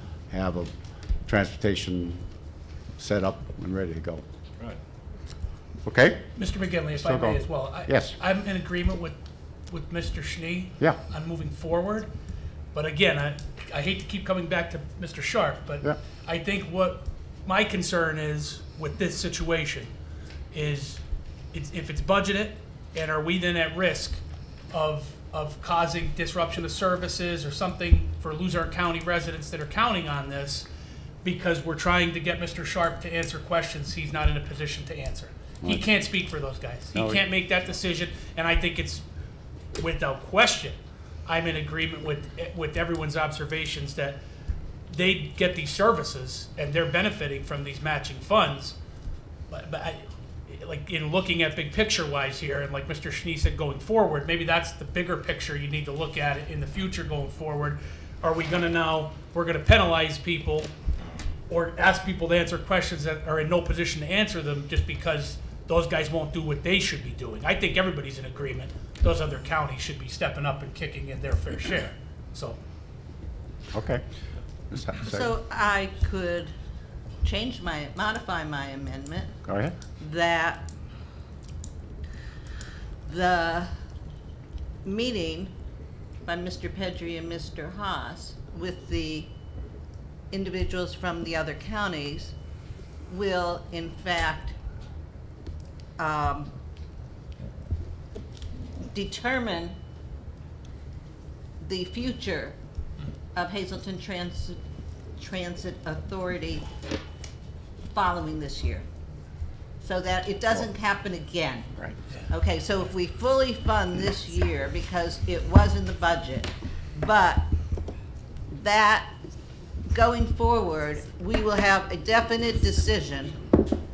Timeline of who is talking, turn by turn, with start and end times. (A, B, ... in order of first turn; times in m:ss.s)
0:00.3-0:00.7 A
0:01.2-0:02.2 A
0:03.0-0:04.2 A
0:05.8-0:06.2 A
0:06.4-0:09.2 B
0:07.0-0:08.1 A
0:09.7-0:12.1 B
0:12.7-0:19.9 B
0:20.5-0:21.0 B
0:21.5-0:24.2 B
0:24.7-0:30.7 B
0:31.2-0:39.0 B
0:36.9-0:37.2 A
0:39.8-0:44.2 B
0:44.9-0:48.8 B
0:49.5-1:00.7 B
1:01.5-1:12.6 B
1:13.7-1:14.0 A
1:14.7-1:15.3 A
1:15.0-1:16.5 C
1:17.2-1:19.4 C
1:19.4-1:19.8 A
1:20.0-1:20.7 C
1:23.0-1:23.7 C
1:24.8-1:25.5 C
1:26.2-1:29.3 C
1:30.3-1:32.3 C
1:33.1-1:34.6 C
1:36.0-1:36.5 C
1:38.9-1:39.8 C
1:41.6-1:42.6 C
1:43.3-1:44.6 C
1:45.2-1:46.7 C
1:47.9-1:48.8 C
1:49.8-1:51.7 C
1:52.3-1:57.5 C
1:58.5-1:59.2 C
1:59.9-2:03.4 C